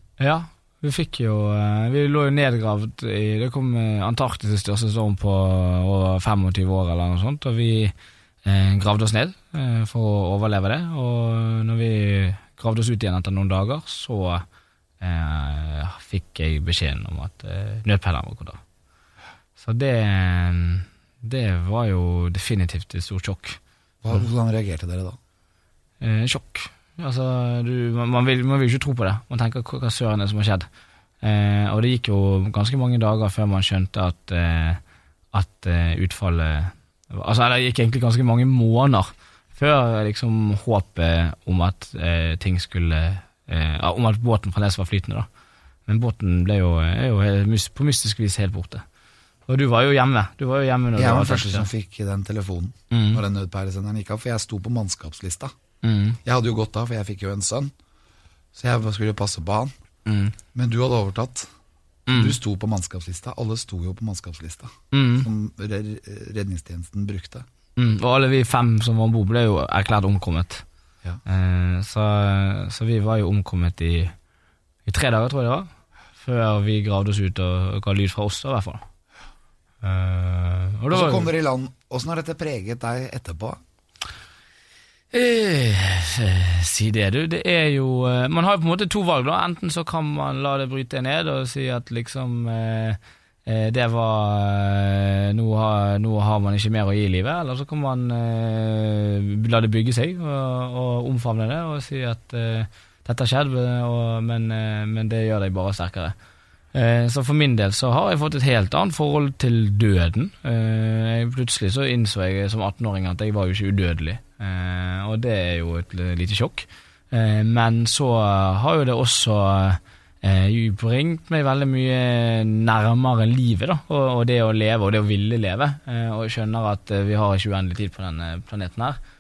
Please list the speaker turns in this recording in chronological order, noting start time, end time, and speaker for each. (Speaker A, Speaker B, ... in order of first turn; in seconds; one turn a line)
Speaker A: 0.2-14.4
Speaker A: 15.0-18.6
Speaker A: 19.6-23.6
Speaker B: 24.0-25.2
Speaker A: 26.0-30.7
Speaker A: 31.2-34.8
Speaker A: 35.3-45.3
Speaker A: 45.9-48.8
Speaker A: 49.5-51.7
Speaker B: 51.0-55.5
Speaker A: 52.9-53.2
Speaker A: 55.8-56.2
Speaker B: 56.2-57.7
Speaker B: 58.5-59.7
Speaker A: 60.0-60.4
Speaker B: 60.5-61.5
Speaker A: 62.1-62.4
Speaker B: 62.1-67.5
Speaker A: 64.9-65.3
Speaker A: 67.8-70.6
Speaker A: 71.2-74.1
Speaker A: 74.8-78.8
Speaker A: 79.8-81.3
Speaker B: 80.9-83.6
Speaker A: 85.1-106.1
Speaker A: 106.7-129.0